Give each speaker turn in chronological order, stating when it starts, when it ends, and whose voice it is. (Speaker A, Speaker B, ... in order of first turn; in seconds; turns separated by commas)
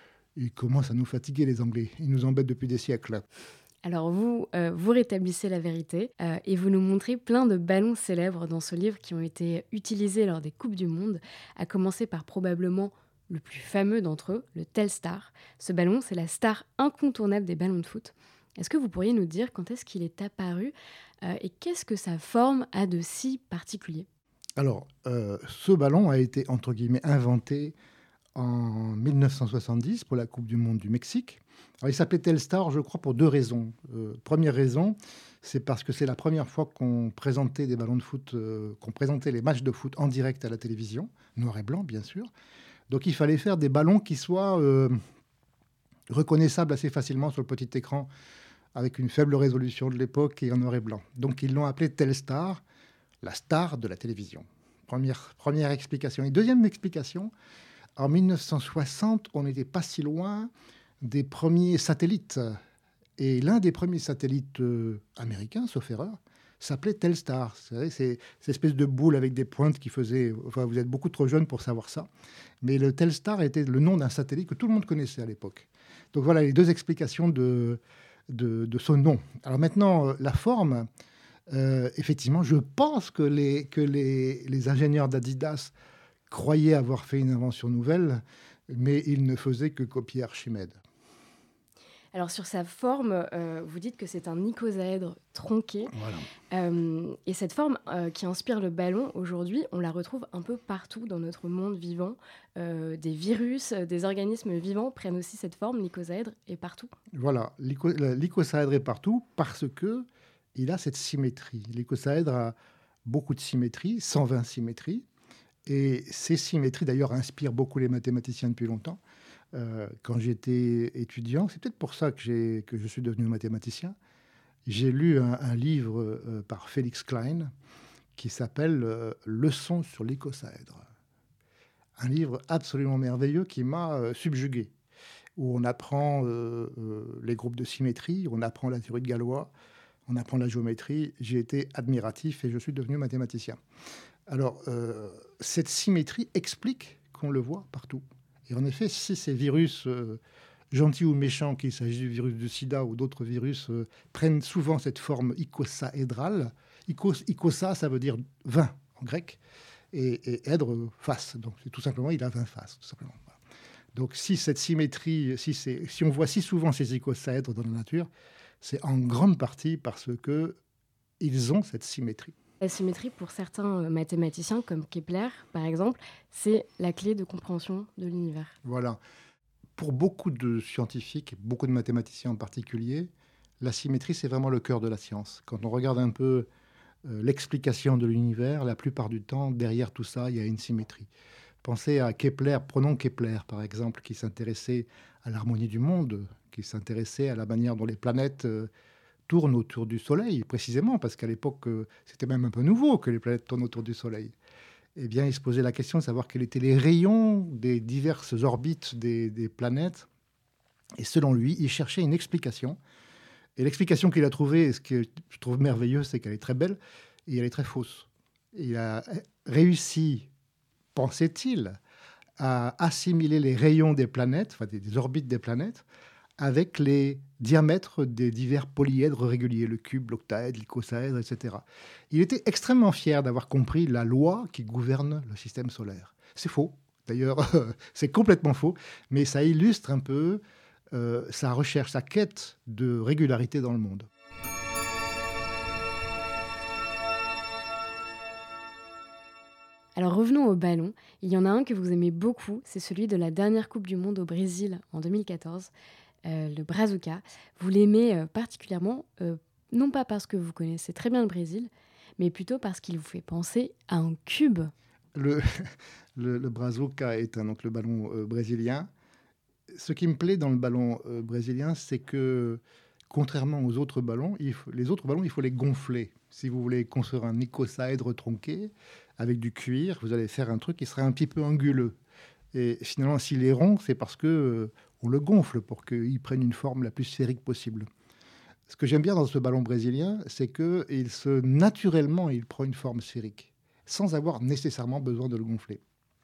Speaker A: 0.3-3.2, Speaker B: 3.8-24.1, Speaker A: 24.6-27.7, Speaker A: 28.3-42.3, Speaker A: 42.9-45.0, Speaker A: 46.1-48.1, Speaker A: 48.7-52.6, Speaker A: 53.2-57.3, Speaker A: 58.0-60.5, Speaker A: 61.0-62.6, Speaker A: 63.2-72.1, Speaker A: 72.6-80.9, Speaker A: 81.5-85.7, Speaker A: 86.3-90.8, Speaker B: 92.1-95.9, Speaker A: 95.9-96.2, Speaker B: 96.5-106.9, Speaker A: 107.1-112.5, Speaker A: 113.0-115.0, Speaker A: 115.7-119.0, Speaker A: 119.5-124.0, Speaker A: 124.7-127.5, Speaker A: 128.2-130.8, Speaker A: 132.0-134.7, Speaker A: 135.4-139.5, Speaker A: 140.1-143.6, Speaker A: 144.3-150.2, Speaker A: 150.7-159.4, Speaker A: 159.9-163.4, Speaker A: 163.9-168.1, Speaker A: 168.6-170.6, Speaker A: 171.2-172.3, Speaker B: 172.6-178.6, Speaker A: 178.6-179.0, Speaker A: 179.8-186.5, Speaker A: 187.1-191.1, Speaker A: 191.6-198.7, Speaker A: 199.3-204.3, Speaker A: 204.9-210.1, Speaker A: 211.0-212.8, Speaker A: 213.6-220.3, Speaker A: 220.9-221.8, Speaker A: 222.4-225.8, Speaker A: 226.4-240.4, Speaker A: 240.9-244.1, Speaker B: 249.9-255.7, Speaker B: 256.2-264.7, Speaker A: 265.1-268.9, Speaker A: 269.7-281.9, Speaker A: 282.5-287.9, Speaker A: 288.7-295.8